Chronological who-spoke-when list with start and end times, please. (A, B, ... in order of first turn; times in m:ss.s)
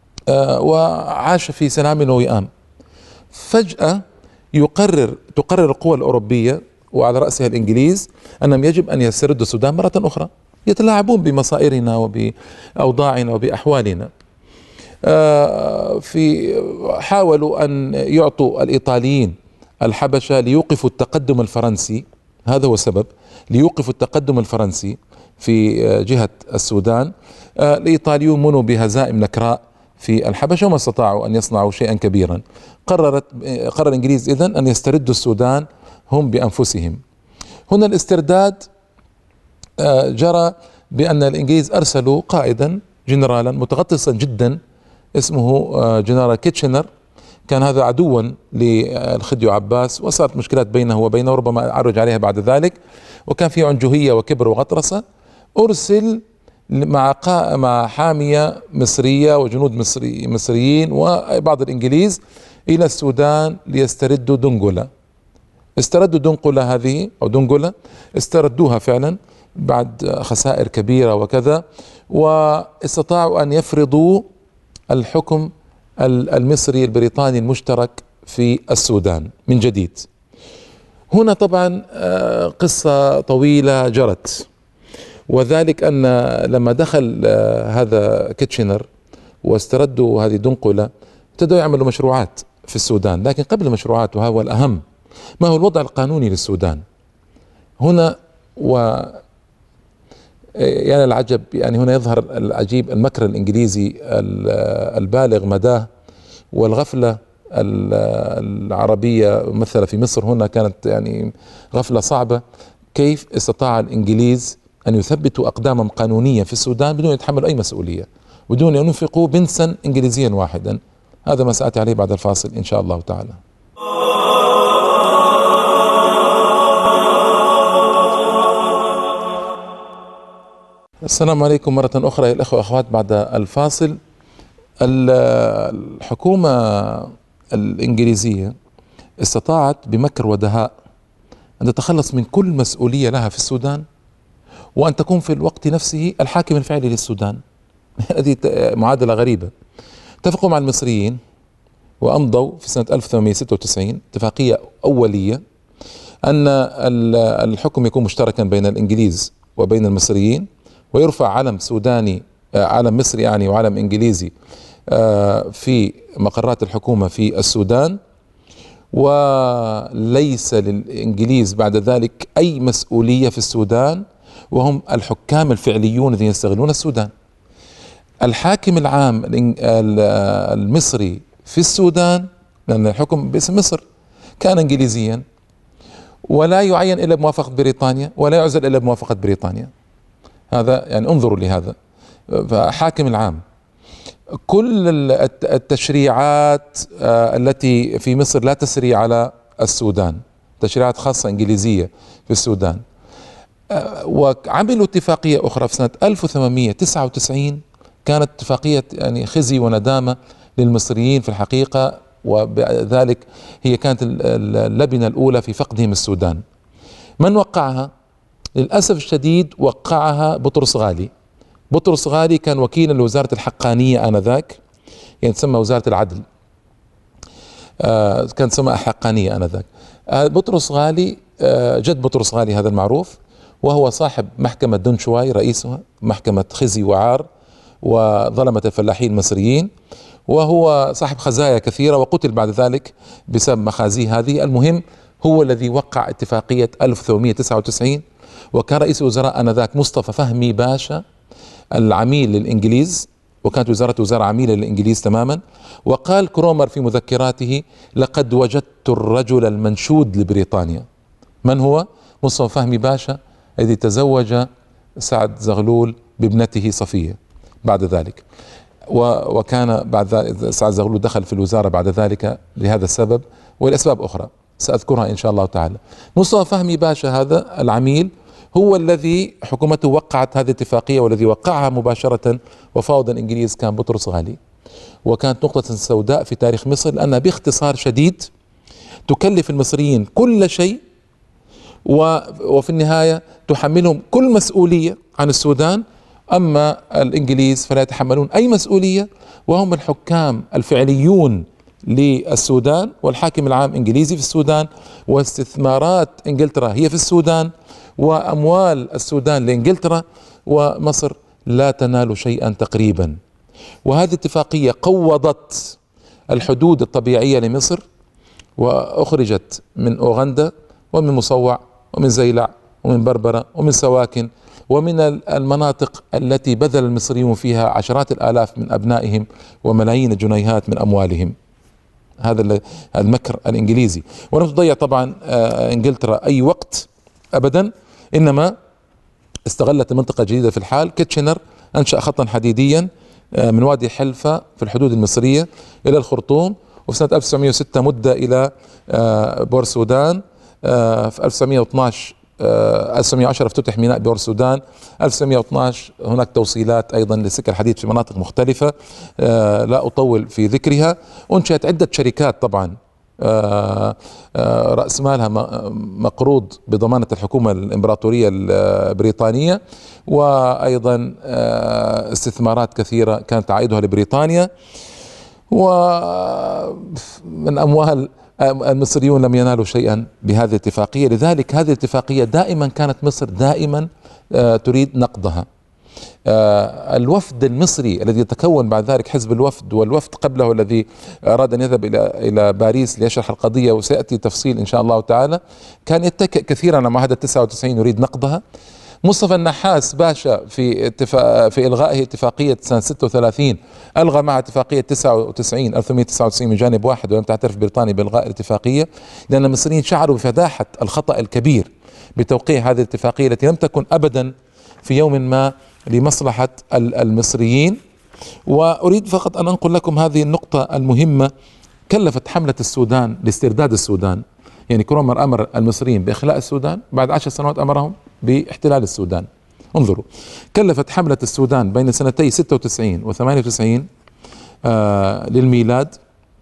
0:00.3-0:02.5 A
0:03.3-0:04.0 A
0:04.5-0:14.1 A
0:15.0-0:37.0 A
0:37.7-0:38.7 A
0:39.8-0:44.6 A
0:45.2-0:46.9 A
0:47.5-0:55.0 A
0:55.6-1:04.9 A
1:05.8-1:14.2 A
1:14.9-1:15.5 A
1:16.0-1:20.1 A
1:21.1-1:24.5 A
1:25.3-1:28.9 A
1:29.4-1:34.8 A
1:35.4-1:36.8 A
1:37.8-1:39.2 A
1:40.6-1:45.9 A
1:46.5-1:52.4 A
1:52.9-2:03.4 A
2:11.0-2:14.0 A
2:14.8-2:18.5 A
2:19.2-2:20.7 A
2:21.6-2:23.8 A
2:24.8-2:27.4 A
2:28.0-2:29.5 A
2:30.2-2:31.2 A
2:32.0-2:35.4 A
2:36.2-2:44.3 A
2:44.9-2:48.0 A
2:48.9-2:57.1 A
2:58.2-3:03.8 A
3:04.4-3:05.2 A
3:06.3-3:09.7 A
3:10.5-3:11.8 A
3:12.3-3:13.4 A
3:14.5-3:22.8 A
3:23.7-3:36.4 A
3:37.2-3:37.9 A
3:38.6-3:41.1 A
3:41.7-3:44.6 A
3:45.2-3:46.2 A
3:47.8-3:57.3 A
3:57.8-3:59.7 A
4:00.3-4:11.0 A
4:11.8-4:20.8 A
4:21.4-4:24.5 A
4:25.0-4:28.2 A
4:28.9-4:44.4 A
4:45.0-4:48.3 A
4:49.1-4:50.8 A
4:51.8-5:13.2 A
5:13.8-5:15.8 A
5:16.3-5:17.8 A
5:18.6-5:31.4 A
5:32.2-5:38.5 A
5:39.5-6:14.5 A
6:15.5-6:25.5 A
6:26.3-6:38.4 A
6:39.0-6:54.3 A
6:54.8-6:57.8 A
6:58.5-7:01.3 A
7:01.9-7:13.9 A
7:14.6-7:16.0 A